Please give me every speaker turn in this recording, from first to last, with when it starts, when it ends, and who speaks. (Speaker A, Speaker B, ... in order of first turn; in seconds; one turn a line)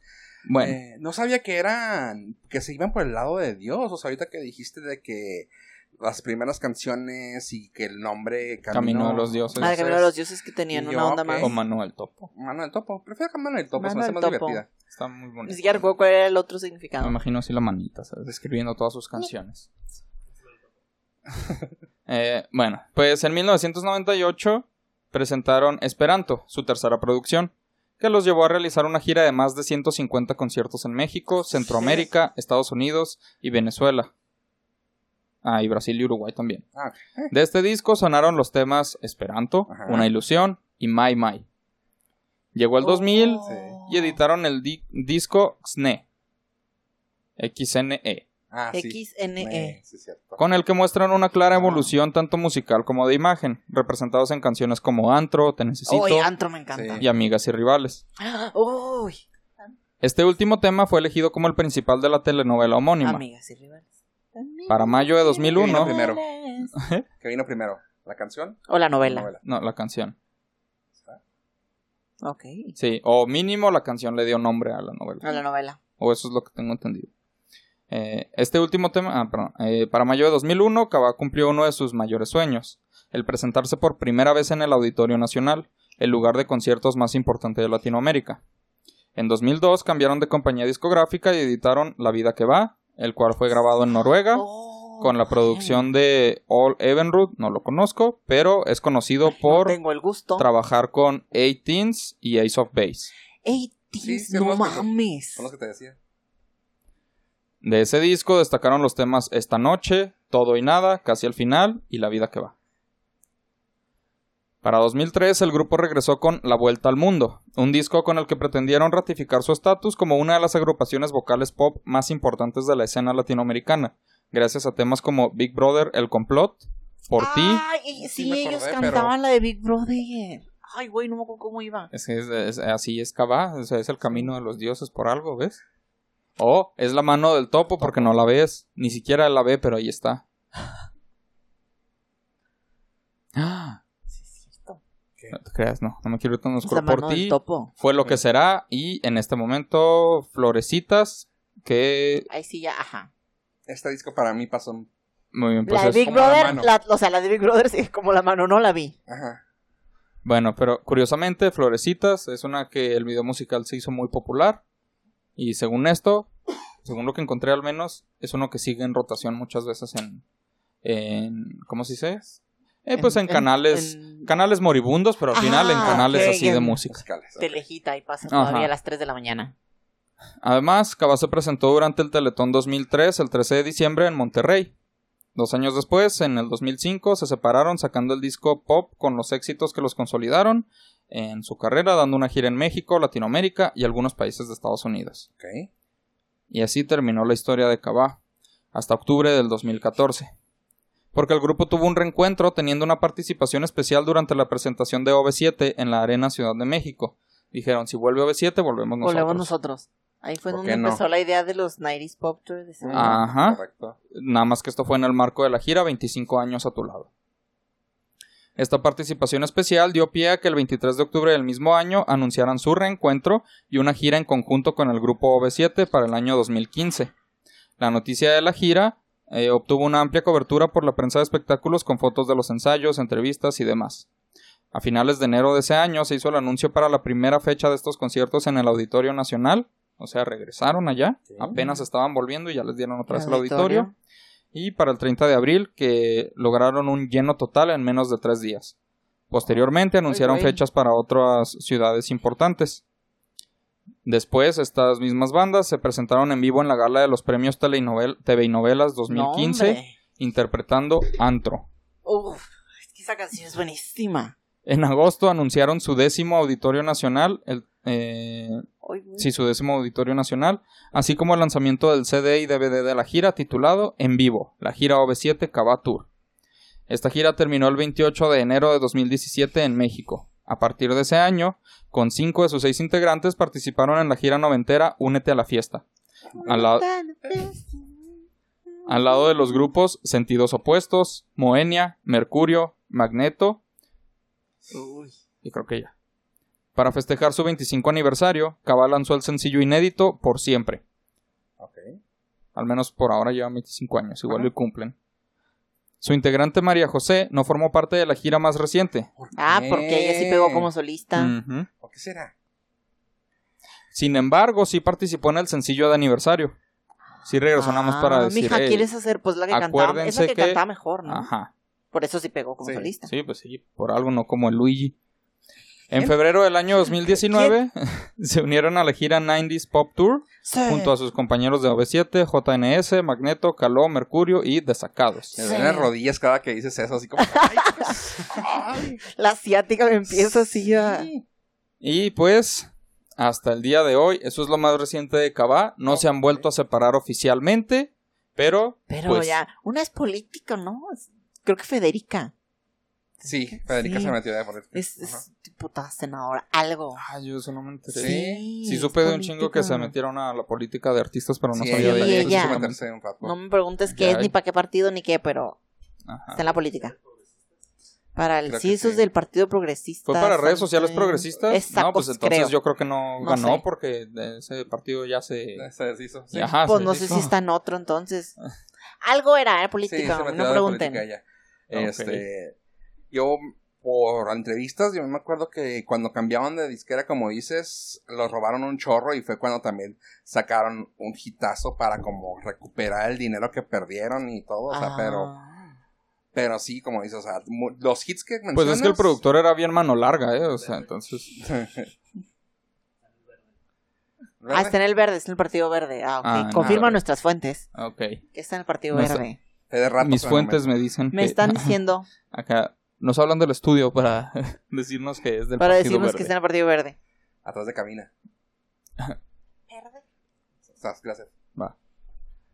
Speaker A: 0.5-0.8
Speaker B: 0.6-10.1
Speaker A: 8.7-9.8
Speaker C: 9.6-11.5
Speaker B: 10.7-11.5
Speaker A: 11.4-12.3
Speaker B: 12.4-14.7
Speaker C: 13.8-14.6
Speaker A: 14.9-15.8
Speaker C: 15.5-17.1
Speaker A: 17.0-19.7
Speaker A: 22.1-34.1
Speaker C: 31.6-32.1
Speaker A: 35.4-36.6
Speaker B: 36.8-37.3
Speaker A: 37.3-41.5
Speaker B: 39.7-40.1
Speaker A: 42.5-46.0
Speaker C: 42.8-44.2
Speaker B: 43.5-43.8
Speaker A: 47.4-48.2
Speaker B: 48.5-50.4
Speaker C: 48.7-49.8
Speaker A: 50.4-56.3
Speaker B: 51.6-51.9
Speaker C: 55.9-57.0
Speaker B: 56.7-57.0
Speaker A: 57.0-58.0
Speaker C: 58.2-59.2
Speaker A: 60.0-63.2
Speaker C: 63.0-63.8
Speaker C: 64.3-66.7
Speaker A: 64.7-65.9
Speaker B: 65.6-66.2
Speaker A: 66.8-67.1
Speaker B: 67.2-69.4
Speaker C: 68.7-69.3
Speaker A: 69.4-70.2
Speaker C: 72.2-72.8
Speaker A: 72.8-75.4
Speaker C: 75.2-75.8
Speaker A: 76.0-77.1
Speaker A: 77.9-88.4
Speaker A: 89.2-94.5
Speaker C: 94.3-95.8
Speaker A: 95.0-99.8
Speaker C: 99.3-100.5
Speaker A: 100.4-103.1
Speaker C: 103.5-105.5
Speaker B: 104.0-106.0
Speaker A: 107.6-112.5
Speaker A: 114.6-127.6
Speaker C: 127.2-131.9
Speaker B: 128.0-129.1
Speaker A: 131.9-135.6
Speaker A: 136.4-140.2
Speaker B: 137.8-138.2
Speaker A: 143.4-143.8
Speaker C: 144.2-144.8
Speaker A: 145.3-152.3
Speaker C: 146.7-147.7
Speaker C: 152.3-153.1
Speaker B: 153.7-154.9
Speaker A: 155.3-156.6
Speaker C: 155.7-158.9
Speaker B: 156.0-156.7
Speaker B: 159.1-159.4
Speaker A: 160.2-164.6
Speaker A: 165.4-166.3
Speaker A: 166.8-170.2
Speaker A: 170.8-177.0
Speaker C: 173.0-174.3
Speaker C: 175.3-176.8
Speaker B: 175.8-176.4
Speaker B: 176.9-177.6
Speaker C: 177.4-179.5
Speaker A: 178.3-178.7
Speaker A: 180.4-184.7
Speaker A: 185.3-195.3
Speaker B: 195.4-195.7
Speaker A: 196.5-198.2
Speaker A: 198.7-200.3
Speaker A: 201.1-209.5
Speaker C: 209.0-213.2
Speaker B: 210.5-211.0
Speaker B: 212.8-214.0
Speaker A: 212.9-217.1
Speaker A: 218.6-227.1
Speaker A: 227.8-234.1
Speaker A: 234.7-243.9
Speaker C: 243.1-243.9
Speaker A: 244.5-248.7
Speaker A: 249.3-252.8
Speaker C: 250.1-250.6
Speaker A: 254.1-261.7
Speaker C: 259.1-259.9
Speaker C: 262.1-264.4
Speaker A: 264.7-268.7
Speaker C: 268.8-269.3
Speaker A: 269.2-276.1
Speaker A: 276.9-285.8
Speaker C: 286.4-287.7
Speaker A: 286.4-286.9
Speaker A: 288.9-293.6
Speaker C: 294.7-295.1
Speaker A: 295.4-295.9
Speaker A: 296.8-300.8
Speaker B: 301.6-302.0
Speaker A: 302.6-304.9
Speaker A: 306.0-309.1
Speaker B: 309.2-310.7
Speaker C: 309.4-311.4
Speaker A: 311.2-311.7
Speaker B: 311.8-312.3
Speaker A: 313.9-316.6
Speaker A: 317.2-318.9
Speaker C: 317.6-321.3
Speaker A: 319.5-321.5
Speaker C: 321.9-323.1
Speaker B: 322.6-322.9
Speaker A: 323.1-324.9
Speaker A: 325.9-335.4
Speaker C: 326.9-327.6
Speaker C: 330.5-330.9
Speaker C: 335.4-335.9
Speaker B: 335.4-339.0
Speaker C: 337.2-338.0
Speaker C: 339.0-341.1
Speaker B: 340.1-341.2
Speaker A: 341.8-349.4
Speaker B: 345.9-346.4
Speaker C: 348.9-352.3
Speaker B: 353.2-355.2
Speaker C: 353.5-354.2
Speaker C: 354.7-357.0
Speaker A: 357.0-362.8
Speaker B: 357.9-358.4
Speaker C: 357.9-359.9
Speaker B: 361.5-363.3
Speaker C: 361.7-362.6
Speaker C: 363.2-365.6
Speaker A: 363.9-364.3
Speaker A: 366.1-366.4
Speaker C: 366.3-367.0
Speaker C: 368.1-372.6
Speaker B: 368.5-369.0
Speaker A: 370.1-375.7
Speaker C: 373.2-373.6
Speaker B: 375.6-376.6
Speaker A: 376.3-377.3
Speaker C: 376.6-378.4
Speaker C: 379.0-381.0
Speaker B: 379.9-382.6
Speaker A: 381.7-382.2
Speaker B: 383.1-395.3
Speaker C: 394.7-395.7
Speaker B: 396.3-399.2
Speaker A: 398.6-401.5
Speaker B: 401.4-401.9
Speaker B: 404.4-404.8
Speaker C: 404.5-407.7
Speaker A: 406.2-407.0
Speaker A: 407.8-408.2
Speaker C: 408.3-409.4
Speaker A: 408.9-409.2
Speaker B: 409.7-410.7
Speaker A: 410.0-411.8
Speaker C: 411.1-412.1
Speaker A: 412.3-416.3
Speaker C: 415.6-417.0
Speaker B: 417.4-418.1
Speaker C: 419.7-420.0
Speaker B: 420.7-421.3